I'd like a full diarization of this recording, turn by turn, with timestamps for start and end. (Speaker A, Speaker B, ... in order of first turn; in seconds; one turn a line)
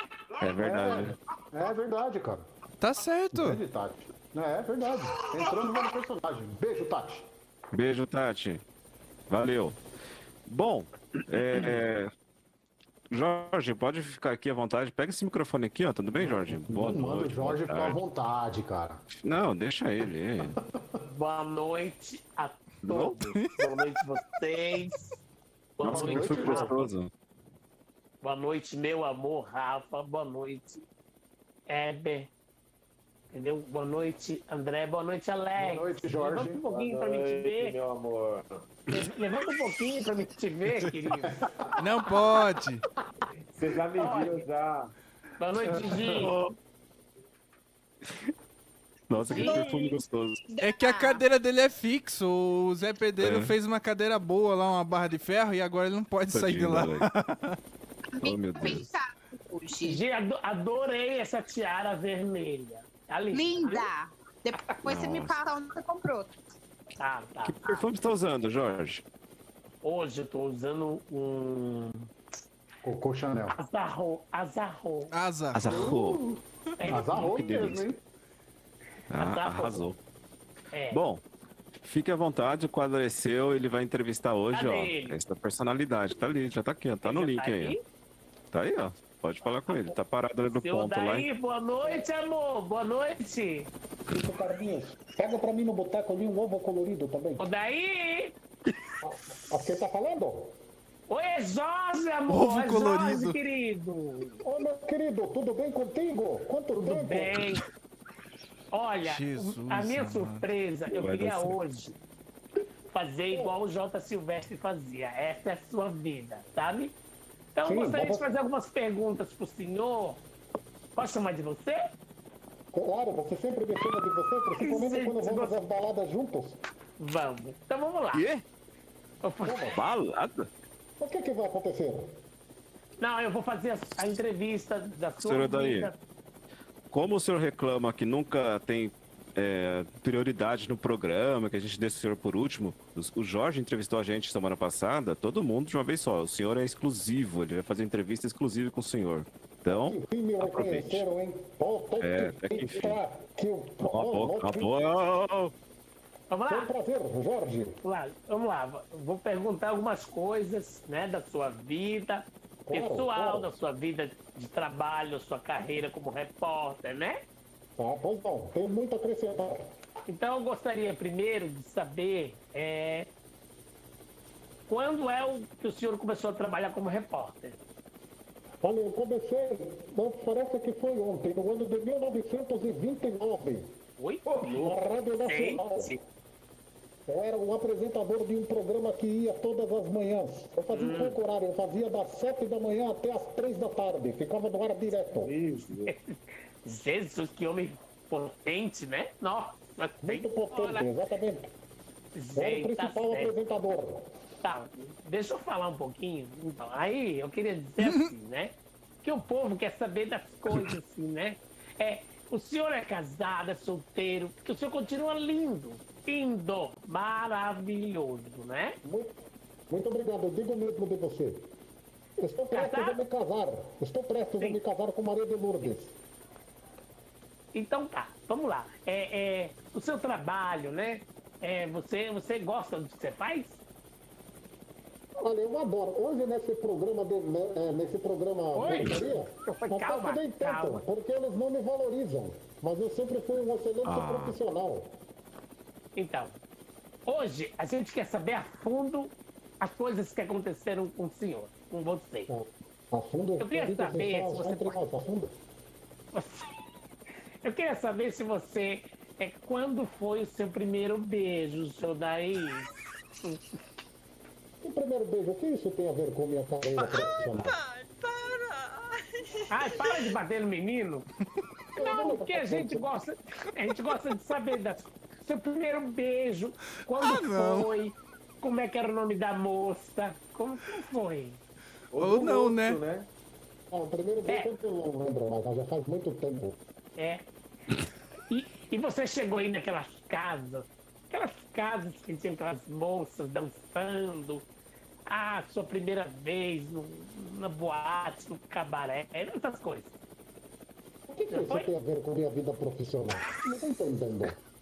Speaker A: 0.4-1.1
Speaker B: 0.6-2.4
Speaker C: 2.8-3.6
Speaker B: 3.3-7.2
Speaker A: 7.7-8.6
Speaker A: 9.3-9.8
Speaker A: 10.5-12.1
Speaker A: 13.1-18.0
Speaker B: 16.2-19.0
Speaker A: 19.2-20.6
Speaker D: 21.1-25.2
Speaker A: 22.9-23.2
Speaker D: 25.8-26.9
Speaker A: 25.8-27.1
Speaker B: 25.9-26.7
Speaker D: 28.2-30.8
Speaker D: 31.7-32.3
Speaker D: 33.3-37.8
Speaker B: 35.6-36.6
Speaker E: 36.2-38.6
Speaker D: 38.9-41.4
Speaker C: 41.8-42.8
Speaker E: 43.5-44.9
Speaker D: 44.0-44.5
Speaker D: 45.4-46.4
Speaker A: 46.2-46.5
Speaker A: 49.1-50.4
Speaker F: 49.3-50.0
Speaker D: 49.3-49.6
Speaker F: 50.5-51.2
Speaker C: 50.6-57.6
Speaker A: 53.2-53.5
Speaker A: 56.3-57.1
Speaker F: 58.1-60.0
Speaker A: 58.2-58.9
Speaker D: 59.8-63.9
Speaker F: 63.3-66.3
Speaker A: 64.8-65.4
Speaker D: 67.0-67.7
Speaker A: 67.4-69.0
Speaker D: 69.8-72.1
Speaker B: 72.8-73.6
Speaker D: 73.6-75.1
Speaker C: 75.1-75.9
Speaker A: 75.5-76.2
Speaker B: 75.7-76.3
Speaker D: 76.8-77.3
Speaker B: 76.9-78.0
Speaker A: 77.1-77.9
Speaker A: 79.1-80.0
Speaker D: 79.2-79.9
Speaker D: 80.7-81.0
Speaker A: 80.9-81.2
Speaker A: 81.8-87.8
Speaker D: 84.5-85.2
Speaker D: 87.0-87.8
Speaker A: 88.5-91.3
Speaker D: 89.7-90.0
Speaker D: 90.5-93.7
Speaker B: 94.1-97.5
Speaker D: 97.4-98.3
Speaker B: 99.0-100.6
Speaker D: 101.1-104.4
Speaker C: 102.3-103.4
Speaker B: 104.4-107.4
Speaker D: 106.8-107.6
Speaker D: 108.7-111.9
Speaker C: 109.0-110.5
Speaker A: 110.9-111.6
Speaker D: 112.9-117.0
Speaker D: 117.5-120.2
Speaker B: 117.7-118.3
Speaker D: 121.0-121.8
Speaker B: 122.7-126.6
Speaker D: 124.6-125.6
Speaker D: 127.0-128.3
Speaker A: 128.1-128.4
Speaker D: 129.2-129.8
Speaker B: 129.4-129.8
Speaker A: 129.7-130.5
Speaker B: 131.0-132.1
Speaker D: 133.0-136.0
Speaker A: 135.2-135.9
Speaker A: 136.9-151.1
Speaker B: 149.7-154.7
Speaker A: 152.0-153.0
Speaker A: 153.8-155.5
Speaker D: 156.3-156.7
Speaker B: 156.5-157.8
Speaker D: 157.8-167.2
Speaker B: 162.7-163.5
Speaker B: 167.8-169.6
Speaker D: 170.1-173.1
Speaker D: 174.7-177.6
Speaker B: 178.6-183.7
Speaker D: 184.0-186.0
Speaker B: 184.3-185.9
Speaker B: 187.1-195.3
Speaker D: 190.7-191.2
Speaker E: 195.2-195.9
Speaker D: 195.8-200.9
Speaker B: 200.0-201.5
Speaker D: 202.2-203.3
Speaker B: 202.4-204.1
Speaker D: 204.4-218.8
Speaker C: 207.8-208.1
Speaker B: 218.8-219.1
Speaker B: 219.7-221.5
Speaker B: 222.2-226.0
Speaker D: 222.5-223.0
Speaker D: 227.5-233.6
Speaker B: 235.2-245.0
Speaker D: 238.5-240.8
Speaker A: 243.8-244.4
Speaker D: 246.0-246.4
Speaker D: 247.1-252.3
Speaker B: 252.3-255.3
Speaker D: 253.4-254.8
Speaker D: 256.1-256.5
Speaker D: 257.4-262.7
Speaker B: 264.6-267.6
Speaker F: 267.6-268.7
Speaker F: 269.5-270.0
Speaker D: 269.5-271.1
Speaker B: 271.8-272.9
Speaker D: 271.8-281.4
Speaker C: 276.9-277.7
Speaker E: 281.9-283.1
Speaker C: 282.0-282.8
Speaker B: 283.7-286.6
Speaker D: 287.0-287.2
Speaker D: 288.3-294.5
Speaker D: 295.1-299.9
Speaker B: 301.1-304.4
Speaker D: 301.3-301.7